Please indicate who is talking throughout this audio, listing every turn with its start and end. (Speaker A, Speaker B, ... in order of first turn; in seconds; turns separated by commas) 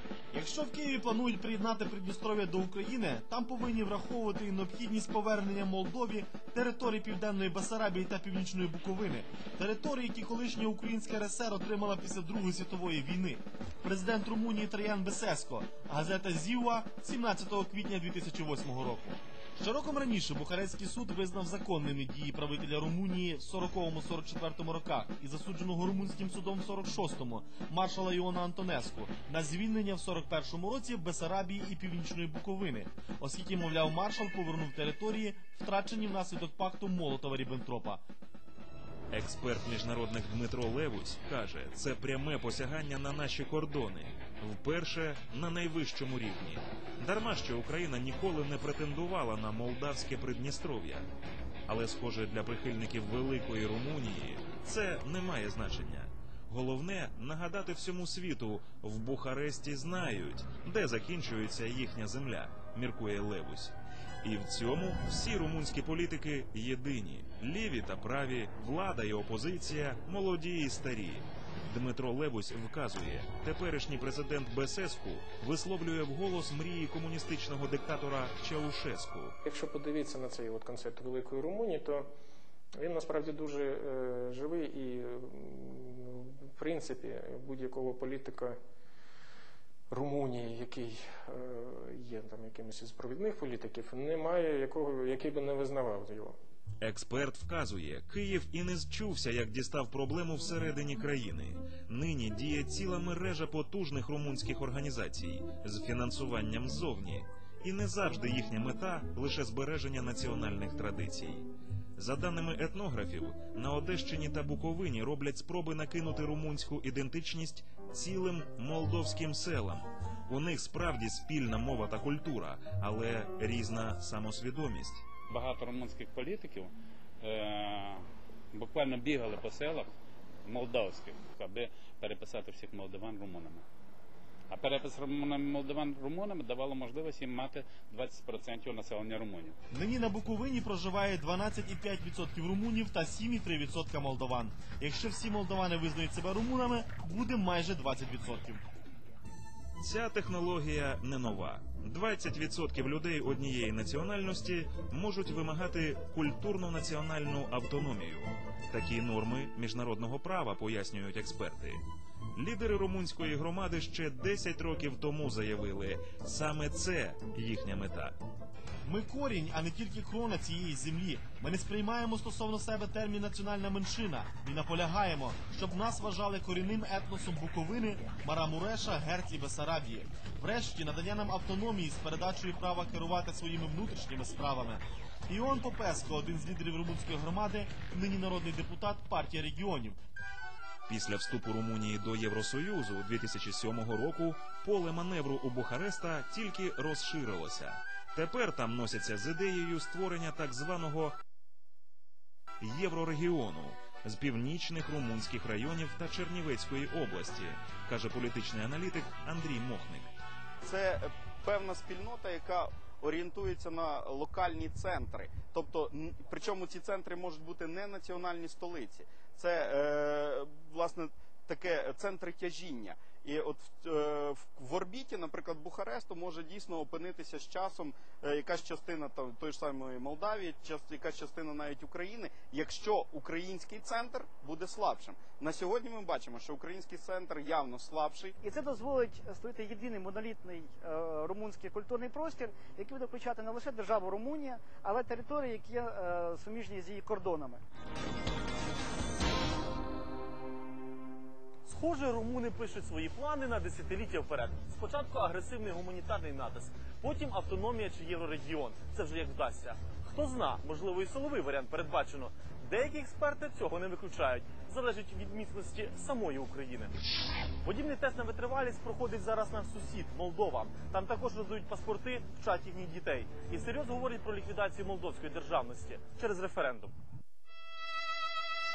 Speaker A: 0.3-38.0, Speaker B: 39.1-51.1, Speaker B: 51.7-79.4, Speaker C: 79.5-82.1, Speaker C: 82.8-88.6, Speaker C: 89.9-96.4, Speaker B: 96.8-125.1, Speaker D: 125.3-129.9, Speaker D: 130.4-133.7, Speaker D: 134.5-139.6, Speaker A: 139.7-148.6, Speaker B: 149.8-161.8, Speaker B: 162.3-168.2, Speaker A: 168.8-190.0, Speaker B: 190.9-201.2, Speaker B: 202.6-210.1, Speaker E: 210.6-238.4, Speaker F: 238.4-247.6, Speaker G: 251.7-266.9, Speaker G: 267.6-276.9